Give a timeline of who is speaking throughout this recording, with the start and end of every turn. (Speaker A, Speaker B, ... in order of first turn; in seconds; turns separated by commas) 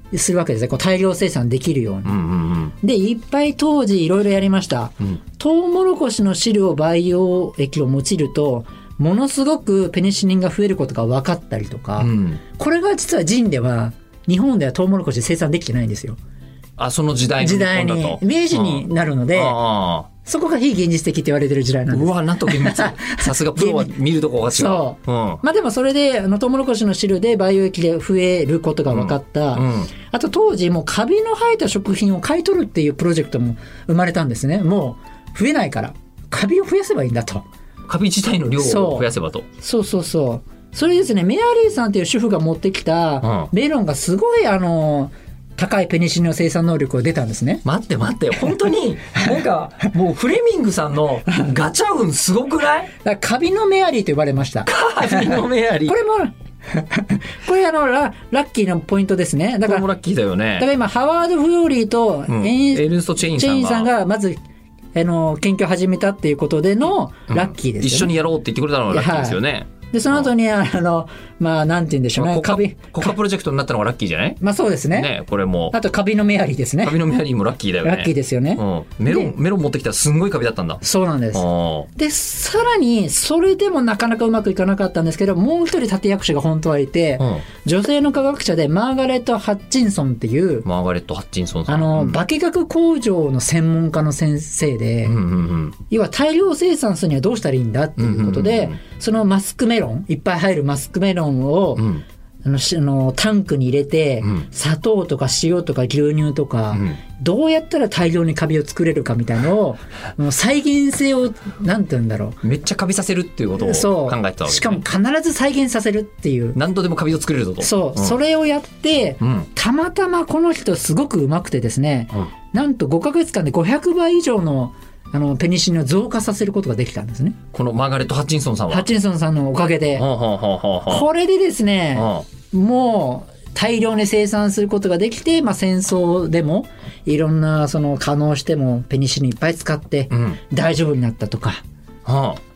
Speaker A: 0.1-2.2, Speaker B: 2.0-2.7, Speaker A: 2.8-16.2, Speaker B: 12.0-12.4, Speaker B: 16.8-20.1, Speaker A: 17.4-19.6, Speaker A: 20.2-23.9, Speaker B: 21.9-25.4, Speaker A: 24.5-37.4, Speaker B: 28.9-29.9, Speaker B: 37.9-39.5, Speaker A: 38.6-47.6, Speaker B: 43.2-43.5, Speaker B: 47.6-52.9, Speaker A: 53.0-59.9, Speaker B: 54.6-56.0, Speaker B: 59.6-60.7, Speaker A: 60.6-64.4, Speaker B: 62.3-63.9, Speaker A: 64.9-68.1, Speaker B: 67.3-70.3, Speaker A: 68.9-69.4, Speaker A: 69.9-73.1, Speaker B: 72.1-74.4, Speaker A: 74.4-75.1, Speaker B: 74.9-75.8, Speaker A: 75.7-77.2, Speaker B: 76.8-80.8, Speaker A: 77.8-79.3, Speaker A: 80.8-81.4, Speaker B: 81.3-81.9, Speaker A: 81.9-90.7, Speaker B: 87.2-87.4, Speaker B: 90.6-92.2, Speaker A: 91.7-95.2, Speaker B: 95.0-95.8, Speaker A: 95.9-101.9, Speaker B: 98.0-98.8, Speaker B: 101.8-102.0, Speaker A: 102.4-112.4, Speaker B: 106.7-107.0, Speaker B: 112.4-114.8, Speaker A: 113.6-116.6, Speaker B: 116.5-118.2, Speaker A: 117.6-127.4, Speaker B: 119.2-119.5, Speaker B: 127.5-128.9, Speaker A: 128.7-130.1, Speaker B: 130.0-131.1, Speaker A: 130.9-141.6, Speaker B: 131.9-132.2, Speaker B: 140.1-140.4, Speaker B: 142.1-142.4